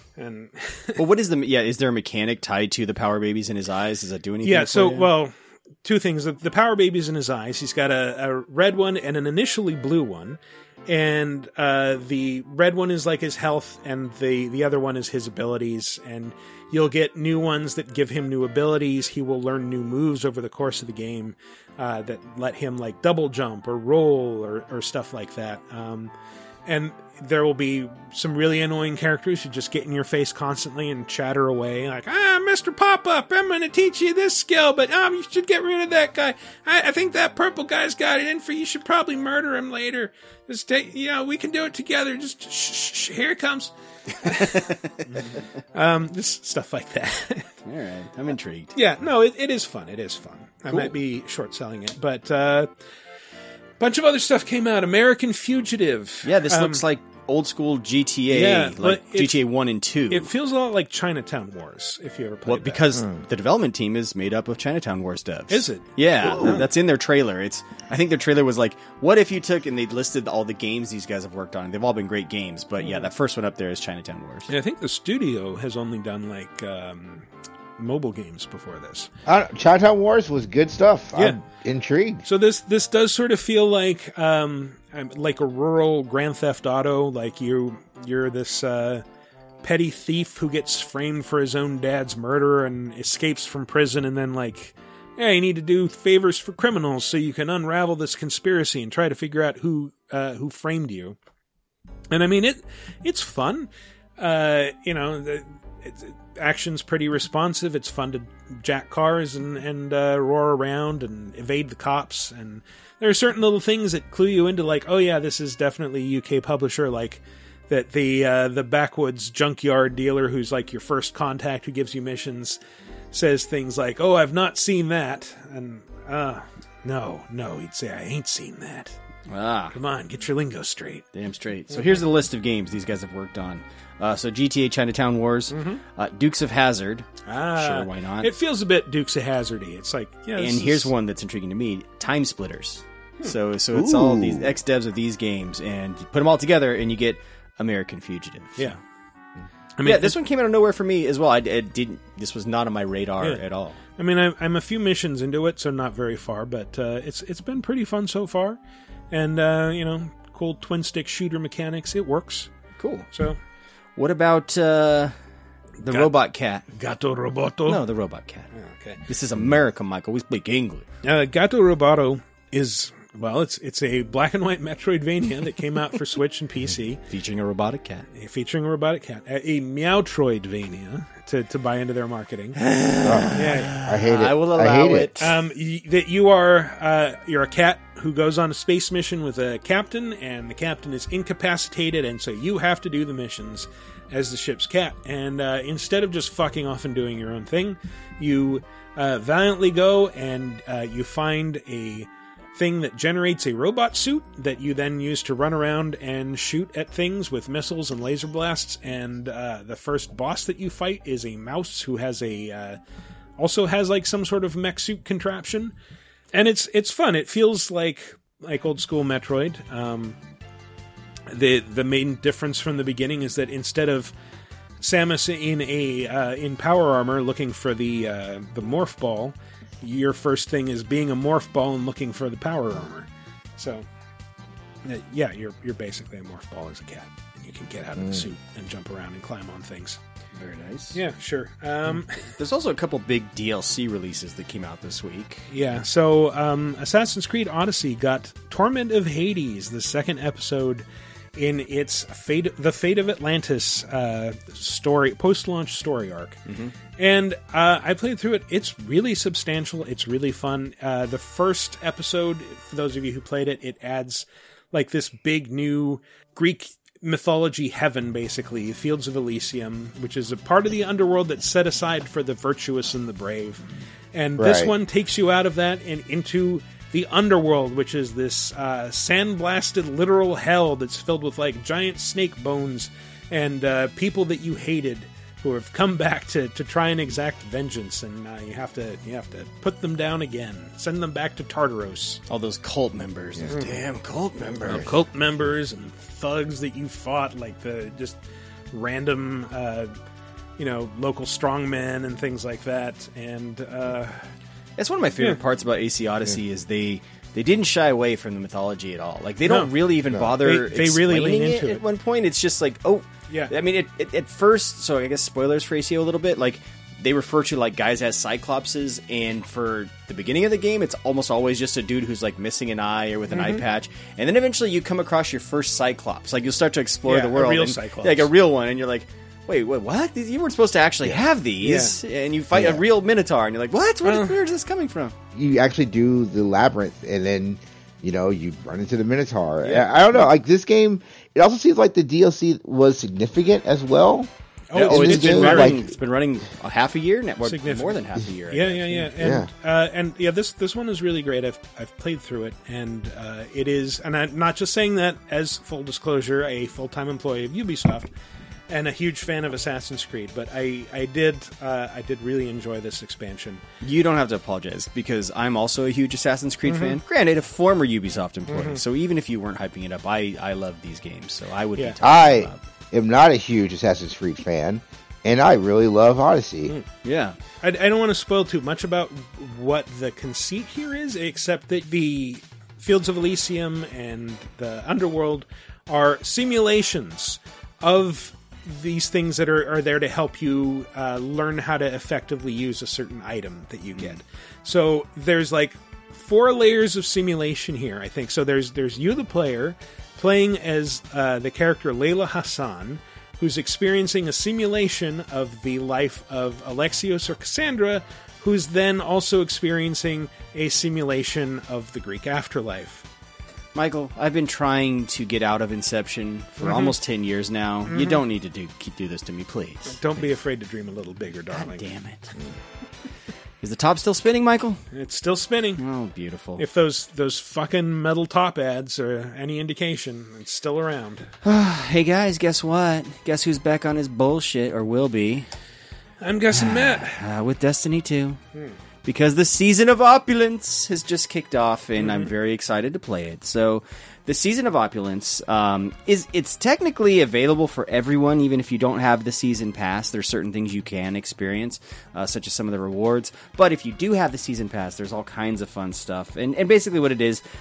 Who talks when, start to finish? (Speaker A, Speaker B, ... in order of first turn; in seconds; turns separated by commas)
Speaker A: 0.2-1.0, Speaker B: 1.0-5.1, Speaker A: 4.4-26.1, Speaker A: 26.6-43.7, Speaker B: 44.2-45.1, Speaker A: 45.7-47.5, Speaker B: 47.6-48.7, Speaker A: 48.7-52.7, Speaker A: 53.8-56.8, Speaker B: 56.2-60.3, Speaker A: 58.3-59.5, Speaker A: 60.1-62.8, Speaker B: 62.5-74.5, Speaker C: 62.9-63.2, Speaker A: 65.5-66.7, Speaker A: 72.8-73.1, Speaker A: 74.5-79.1, Speaker C: 79.2-82.2, Speaker A: 82.2-89.0, Speaker A: 89.6-101.2, Speaker A: 102.1-122.6, Speaker A: 123.1-128.9, Speaker B: 129.3-129.7, Speaker A: 129.7-131.1, Speaker B: 131.1-138.3, Speaker A: 131.7-132.0, Speaker A: 135.5-135.8, Speaker A: 137.2-140.9, Speaker B: 140.4-148.8, Speaker C: 143.7-144.6, Speaker A: 149.8-150.2, Speaker B: 149.8-153.8, Speaker A: 154.0-158.6, Speaker A: 159.1-162.5, Speaker B: 162.8-163.1, Speaker A: 163.1-163.4, Speaker B: 163.9-165.1, Speaker B: 165.8-166.7, Speaker A: 165.9-166.2, Speaker A: 166.7-167.8, Speaker B: 167.7-168.5, Speaker A: 168.5-169.0, Speaker B: 169.1-170.8, Speaker A: 171.0-177.0, Speaker B: 177.1-178.1, Speaker A: 178.1-182.6, Speaker B: 182.6-185.4, Speaker C: 183.0-185.1, Speaker A: 183.3-183.8, Speaker A: 185.2-212.8, Speaker A: 213.4-215.7, Speaker A: 216.3-220.2, Speaker A: 221.3-224.1, Speaker A: 224.8-233.8, Speaker A: 234.8-240.0, Speaker C: 238.0-238.3, Speaker B: 240.3-241.0, Speaker A: 240.9-242.2, Speaker B: 241.9-245.5, Speaker A: 245.5-256.4, Speaker B: 256.4-256.7, Speaker A: 257.0-273.6, Speaker A: 274.1-292.2, Speaker C: 274.4-274.7, Speaker B: 292.3-294.9, Speaker A: 293.5-293.7, Speaker A: 294.6-298.2, Speaker A: 298.7-299.9, Speaker A: 300.6-304.3, Speaker B: 304.8-335.1, Speaker A: 309.4-311.8, Speaker C: 310.1-310.4, Speaker A: 323.3-323.6, Speaker A: 327.0-328.3, Speaker A: 331.6-332.0, Speaker C: 332.5-332.8, Speaker A: 334.0-334.4, Speaker C: 335.3-344.3, Speaker A: 344.7-345.8, Speaker B: 344.7-349.1, Speaker C: 344.8-345.9, Speaker A: 347.4-358.1, Speaker C: 349.2-349.5, Speaker A: 358.7-363.6, Speaker B: 363.8-372.6, Speaker A: 366.7-367.0, Speaker A: 368.5-368.8, Speaker C: 372.0-376.7, Speaker B: 377.0-377.4, Speaker A: 377.6-413.0, Speaker B: 393.9-394.2, Speaker B: 413.7-420.0, Speaker A: 416.6-417.0, Speaker A: 417.9-418.2, Speaker A: 419.9-421.9, Speaker B: 421.5-422.3, Speaker B: 423.6-424.8, Speaker A: 424.9-425.8, Speaker B: 425.8-426.6, Speaker A: 426.6-431.3, Speaker B: 431.4-435.5, Speaker A: 436.2-437.2, Speaker B: 436.5-438.4, Speaker B: 439.0-457.4, Speaker A: 442.0-442.3